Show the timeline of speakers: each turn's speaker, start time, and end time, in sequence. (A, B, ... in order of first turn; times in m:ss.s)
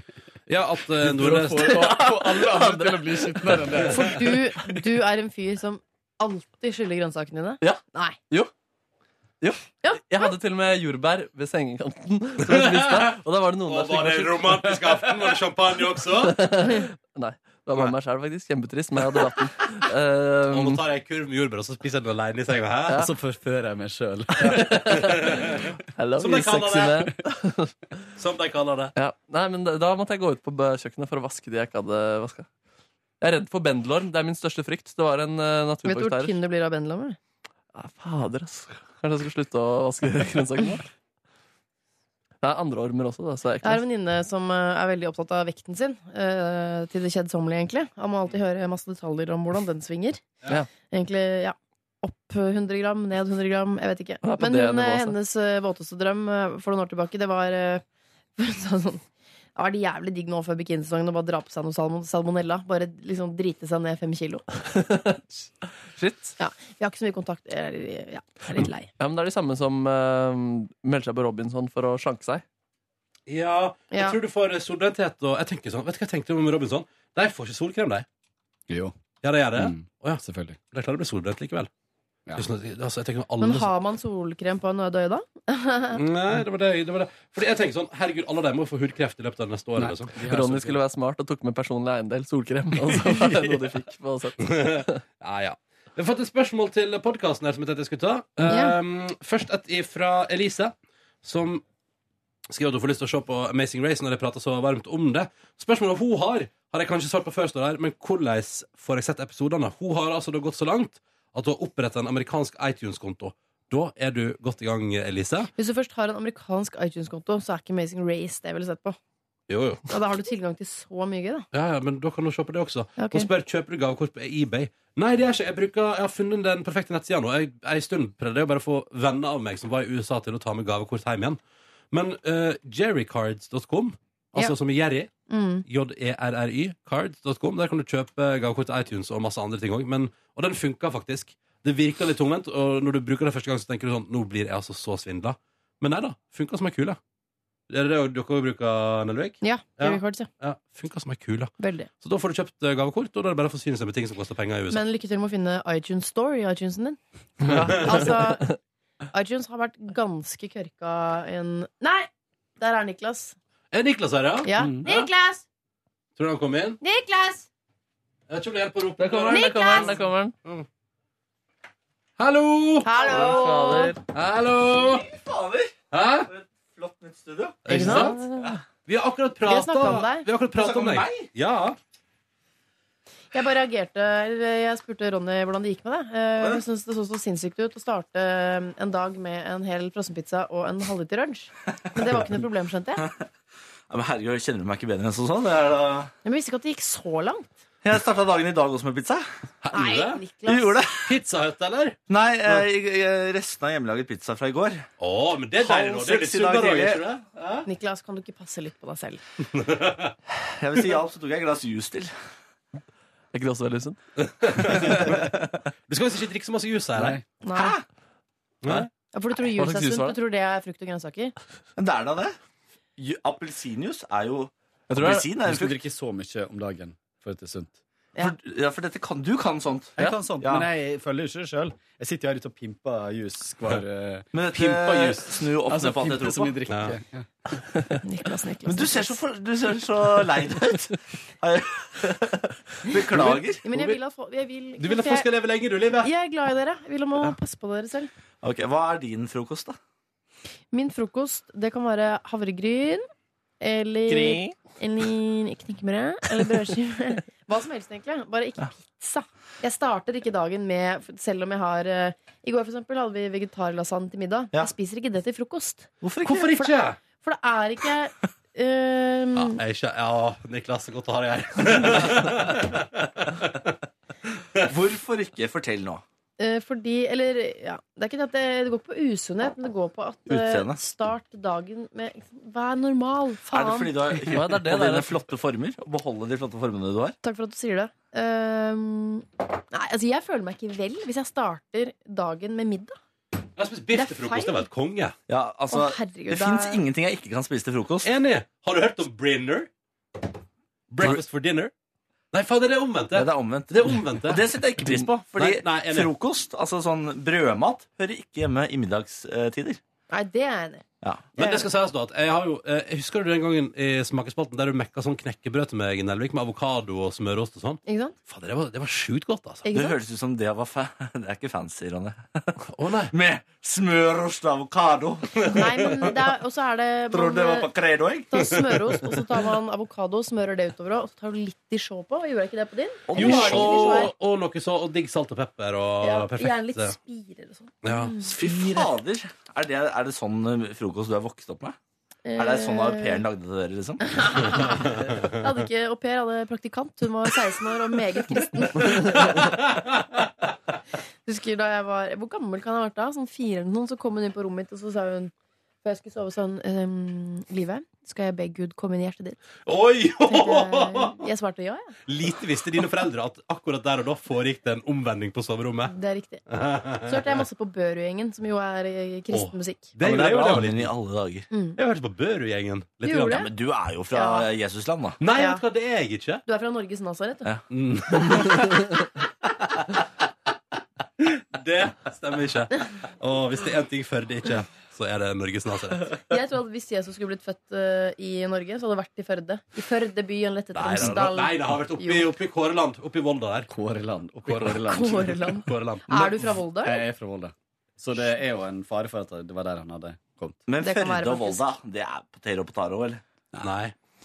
0:00.5-0:01.8 A
0:01.0-0:04.3 B
0:01.6-0:03.9 C
0:03.9-0:08.2 D
0:07.6-0:08.5 C
0:09.4-0:14.7 C
0:09.8-0:10.3 D
0:12.4-0:16.5 A
0:16.2-0:20.8 C
0:20.5-0:23.0 A
0:23.0-0:25.0 B
0:24.4-0:28.0 C
0:24.7-0:27.1 A
0:28.2-0:28.9 A
0:29.0-0:32.5 C
0:33.2-0:36.4 C
0:35.8-0:37.2 D
0:37.7-0:40.9 C
0:42.4-0:43.8 C
0:43.6-0:50.2 D
0:50.9-0:57.8 D
0:54.2-0:55.2 C
0:58.4-0:59.0 D
0:59.6-1:04.4 D
1:04.7-1:05.2 C
1:06.0-1:06.4 C
1:06.4-1:08.9 D
1:09.0-1:12.4 C
1:13.3-1:18.1 A
1:13.9-1:14.2 D
1:18.7-1:19.0 B
1:19.2-1:21.7 A
1:19.6-1:20.6 B
1:22.4-1:23.7 A
1:23.4-1:26.0 D
1:26.0-1:30.1 A
1:29.8-1:30.8 B
1:30.3-1:35.0 C
1:34.4-1:41.6 A
1:38.5-1:38.8 D
1:42.5-1:55.5 A
1:55.6-1:59.0 D
1:59.5-1:59.8 A
1:59.9-2:01.5 D
2:01.5-2:11.4 A
2:03.0-2:03.3 D
2:11.9-2:15.1 A
2:15.3-2:15.6 D
2:15.7-2:27.0 A
2:27.7-2:34.8 A
2:29.4-2:30.3 D
2:31.6-2:31.9 D
2:34.7-2:38.5 D
2:37.4-2:38.0 C
2:37.6-2:38.0 A
2:39.1-2:42.1 D
2:42.6-2:43.4 D
2:43.7-2:45.1 A
2:44.4-2:45.4 D
2:44.6-2:44.8 B
2:46.2-2:46.8 A
2:46.8-2:47.5 D
2:48.3-2:50.7 A
2:49.0-2:50.3 C
2:49.3-2:49.9 D
2:52.2-2:52.9 A
2:52.8-2:54.0 D
2:53.0-2:53.5 E
2:53.1-2:54.0 C
2:54.1-2:55.0 A
2:54.8-2:57.9 E
2:55.9-2:56.3 A
2:57.6-2:58.2 A
2:57.7-2:58.4 D
2:58.9-3:01.8 A
2:59.4-3:00.3 D
3:00.6-3:01.3 E
3:03.3-3:13.0 D
3:13.0-3:13.3 E
3:13.9-3:16.1 E
3:16.2-3:17.5 D
3:17.8-3:19.2 E
3:19.6-3:20.2 A
3:19.7-3:20.8 D
3:20.5-3:21.1 E
3:21.1-3:22.6 A
3:22.1-3:24.9 E
3:25.0-3:27.7 A
3:25.6-3:27.0 E
3:27.7-3:29.2 D
3:29.5-3:30.1 A
3:30.3-3:32.1 E
3:33.3-3:34.0 C
3:34.2-3:35.2 A
3:35.0-3:35.5 E
3:35.9-3:37.2 A
3:37.0-3:37.3 B
3:37.4-3:37.8 D
3:37.5-3:37.8 E
3:38.6-3:38.9 A
3:39.1-3:41.4 D
3:39.4-3:40.2 C
3:41.8-3:42.4 E
3:43.0-3:45.8 E
3:44.9-3:45.3 C
3:45.3-3:47.8 B
3:48.2-3:50.7 E
3:50.0-3:57.3 B
3:54.3-3:56.6 E
3:54.5-3:55.2 A
3:56.7-3:57.0 A
3:58.0-3:59.2 D
3:58.7-4:03.6 E
4:03.6-4:05.3 D
4:03.7-4:04.0 A
4:04.8-4:06.1 A
4:06.0-4:08.1 D
4:08.4-4:09.8 E
4:10.7-4:13.1 D
4:13.6-4:29.6 D
4:14.1-4:14.6 C
4:26.0-4:26.5 E
4:26.2-4:27.0 A
4:29.4-4:33.8 A
4:34.6-4:36.0 E
4:36.4-4:43.9 D
4:40.3-4:40.8 E
4:43.5-4:47.2 E
4:44.3-4:45.2 C
4:47.2-4:53.0 D
4:53.6-4:55.2 A
4:53.9-4:54.7 D
4:55.3-4:58.1 E
4:55.7-4:56.8 D
4:58.0-4:59.7 A
5:00.9-5:01.7 A
5:02.3-5:04.4 A
5:03.1-5:09.8 E
5:05.3-5:06.1 A
5:10.1-5:10.8 D
5:11.0-5:11.3 E
5:11.4-5:19.6 A
5:11.4-5:11.7 D
5:17.9-5:18.2 D
5:19.6-5:20.0 D
5:19.7-5:25.5 E
5:22.7-5:23.1 A
5:25.5-5:27.7 D
5:27.1-5:28.3 E
5:28.3-5:34.1 D
5:28.5-5:29.2 A
5:33.1-5:34.0 E
5:33.1-5:37.0 A
5:36.0-5:38.3 D
5:37.8-5:38.2 A
5:38.2-5:41.8 E
5:42.3-5:43.2 D
5:42.4-5:44.2 E
5:44.0-5:49.5 D
5:44.7-5:45.3 A
5:49.0-5:50.2 A
5:51.3-5:55.3 D
5:55.8-5:59.4 D
5:59.7-6:01.2 A
6:00.2-6:02.0 D
6:02.1-6:05.9 A
6:05.9-6:09.9 D
6:06.5-6:07.4 A
6:09.3-6:10.9 A
6:10.0-6:11.5 E
6:11.5-6:11.8 D
6:11.8-6:13.5 A
6:13.0-6:13.5 D
6:13.3-6:15.2 E
6:14.1-6:14.5 D
6:15.2-6:16.4 A
6:15.3-6:15.6 D
6:16.5-6:17.5 D
6:17.7-6:18.8 A
6:21.2-6:26.2 A
6:26.3-6:32.3 D
6:30.8-6:33.7 A
6:33.7-6:35.6 B
6:34.5-6:34.9 A
6:34.9-6:37.0 D
6:35.6-6:36.5 A
6:36.8-6:40.6 B
6:40.7-6:43.2 E
6:40.8-6:41.6 D
6:43.6-6:43.9 A